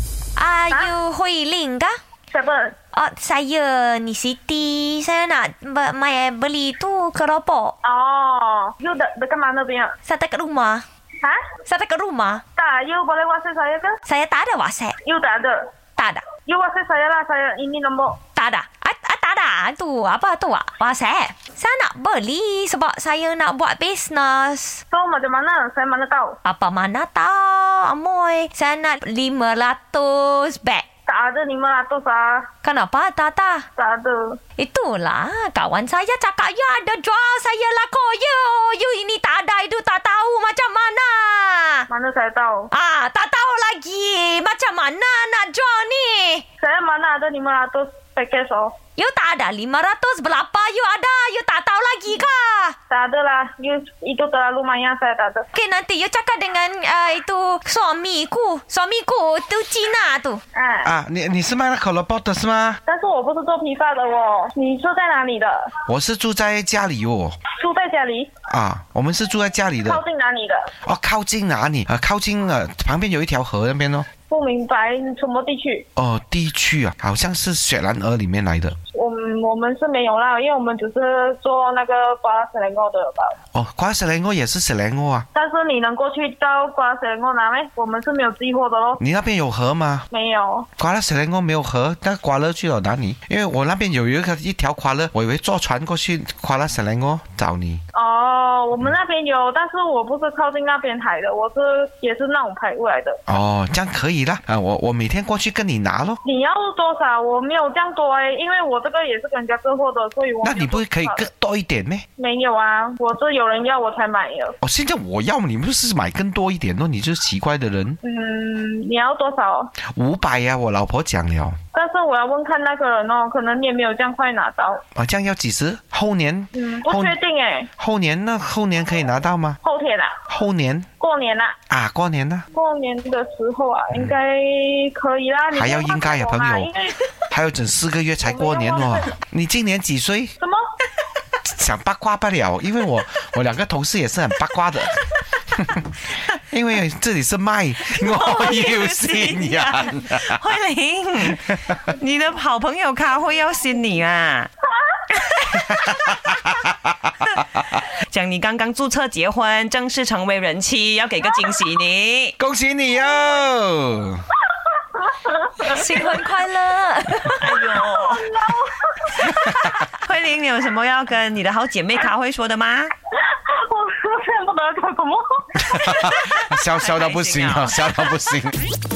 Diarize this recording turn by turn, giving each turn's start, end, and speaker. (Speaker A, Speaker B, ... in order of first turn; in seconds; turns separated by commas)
Speaker A: 0.4-2.0, Speaker B: 2.3-2.8, Speaker A: 2.9-7.8, Speaker B: 7.8-9.9, Speaker A: 10.1-10.8, Speaker A: 11.7-12.4, Speaker B: 12.6-14.0, Speaker A: 14.1-14.9, Speaker B: 15.0-15.7, Speaker A: 16.0-16.2, Speaker B: 16.4-18.2, Speaker A: 18.4-24.8, Speaker B: 24.9-26.4, Speaker A: 26.4-30.9, Speaker B: 31.1-32.5, Speaker A: 32.6-33.7, Speaker B: 33.8-34.4, Speaker A: 34.6-41.9, Speaker B: 41.9-42.7, Speaker A: 42.7-46.4, Speaker B: 46.6-48.7, Speaker A: 49.0-52.7, Speaker B: 52.9-55.5, Speaker A: 55.5-60.4, Speaker B: 60.5-60.9, Speaker C: 60.8-62.8, Speaker B: 62.9-65.7, Speaker C: 65.9-67.4, Speaker B: 67.5-68.3, Speaker C: 68.5-70.0, Speaker B: 69.8-70.7, Speaker C: 70.8-74.1, Speaker B: 74.3-75.9, Speaker C: 76.0-78.8, Speaker B: 78.9-83.4, Speaker C: 83.5-85.2, Speaker B: 85.3-89.0, Speaker C: 89.0-90.0, Speaker B: 90.1-90.7, Speaker C: 90.8-97.8, Speaker B: 97.9-103.2, Speaker C: 103.3-106.2, Speaker B: 106.2-111.2, Speaker C: 110.4-112.0, Speaker B: 112.2-114.6, Speaker C: 114.6-118.0, Speaker B: 118.0-119.7, Speaker C: 119.9-121.6, Speaker B: 121.7-124.8, Speaker C: 124.9-127.2, Speaker B: 126.5-127.7, Speaker C: 127.8-129.6, Speaker B: 129.6-130.2, Speaker C: 130.3-130.9, Speaker B: 131.0-131.6, Speaker C: 131.7-132.4, Speaker B: 132.5-137.0, Speaker C: 135.5-136.7, Speaker C: 137.3-140.3, Speaker B: 138.2-139.1, Speaker B: 140.4-140.6, Speaker C: 141.4-150.4, Speaker D: 147.9-154.5, Speaker C: 151.3-151.8, Speaker C: 155.6-157.3, Speaker D: 158.0-162.3, Speaker C: 162.4-164.3, Speaker B: 165.0-165.8, Speaker A: 165.6-167.6, Speaker D: 167.4-168.3, Speaker B: 167.8-169.2, Speaker D: 169.2-172.9, Speaker B: 173.2-175.8, Speaker C: 175.6-178.6, Speaker D: 176.0-177.8